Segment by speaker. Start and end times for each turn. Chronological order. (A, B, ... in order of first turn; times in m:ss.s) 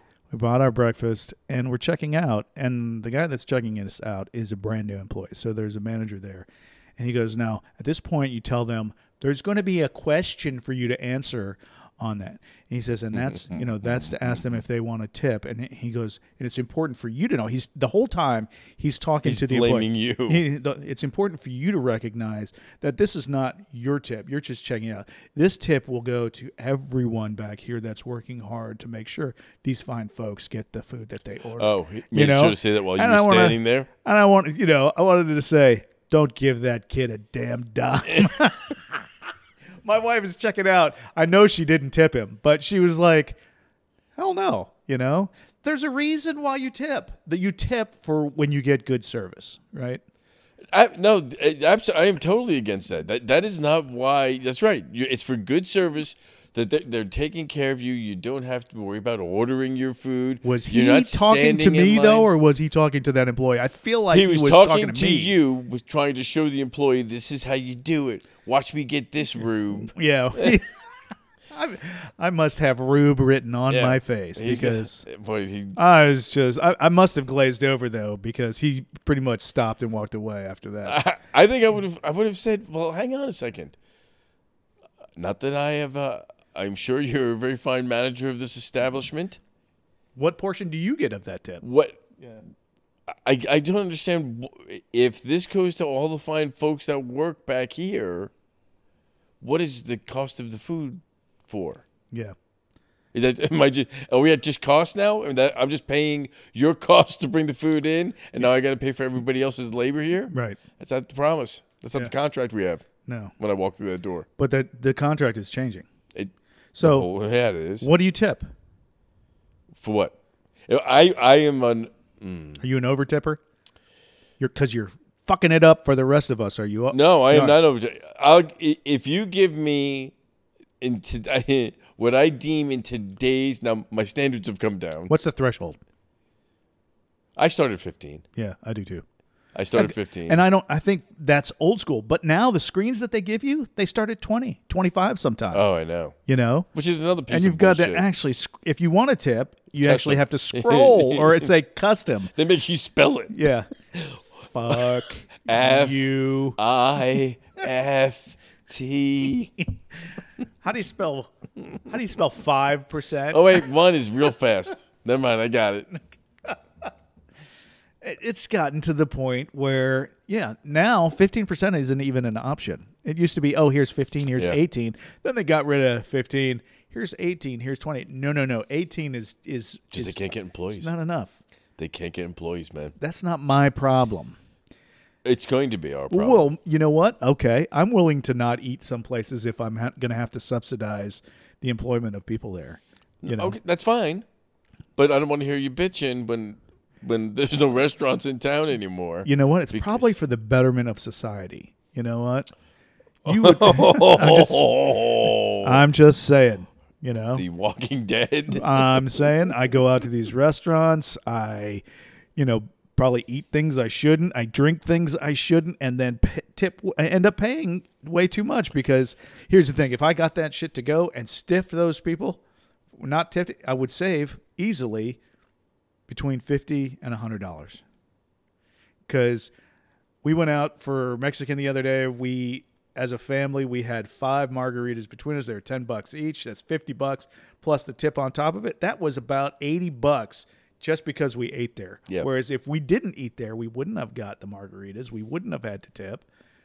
0:00.3-0:39.0 A
0:13.2-0:14.6 B
0:19.2-0:20.4 B
0:31.6-0:33.9 B
0:38.1-0:38.4 B
0:39.8-0:43.4 A
0:44.2-0:50.0 A
0:50.7-1:02.3 B
1:00.4-1:05.3 A
1:04.1-1:10.6 B
1:09.8-1:10.8 A
1:11.5-1:15.1 A
1:13.7-1:15.8 B
1:15.8-1:21.0 A
1:20.8-1:23.8 B
1:25.2-1:29.4 B
1:30.2-1:31.6 A
1:31.6-1:32.0 B
1:33.1-1:38.3 B
1:39.4-1:41.8 B
1:43.1-1:52.8 B
1:50.3-1:50.6 A
1:53.1-1:53.3 A
1:53.4-1:54.2 B
1:54.4-1:55.9 A
1:56.1-1:57.9 B
1:56.7-1:57.1 A
1:57.8-1:58.4 A
1:59.7-2:02.6 B
2:02.6-2:03.4 A
2:04.4-2:07.6 A
2:06.9-2:10.1 B
2:10.8-2:15.1 B
2:15.1-2:15.8 A
2:17.4-2:18.2 B
2:18.4-2:19.0 A
2:19.6-2:20.4 B
2:19.8-2:25.6 A
2:25.5-2:26.2 B
2:26.3-2:26.7 A
2:26.7-2:28.0 B
2:27.3-2:32.3 A
2:29.8-2:31.5 B
2:32.4-2:39.5 B
2:33.3-2:33.7 A
2:34.4-2:36.6 A
2:40.6-2:43.7 A
2:43.3-2:45.9 B
2:48.0-3:00.2 A
2:59.9-3:00.9 B
3:00.7-3:01.4 A
3:01.8-3:03.0 B
3:03.0-3:04.4 A
3:05.2-3:06.4 B
3:06.1-3:13.6 A
3:13.2-3:14.2 B
3:15.0-3:20.2 B
3:19.2-3:22.5 A
3:23.2-3:24.7 A
3:23.2-3:25.8 B
3:25.6-3:27.4 A
3:27.4-3:29.3 B
3:28.5-3:31.8 A
3:32.4-3:42.4 A
3:43.0-3:45.2 A
3:46.1-3:47.8 A
3:49.1-3:49.5 A
3:50.2-4:06.2 A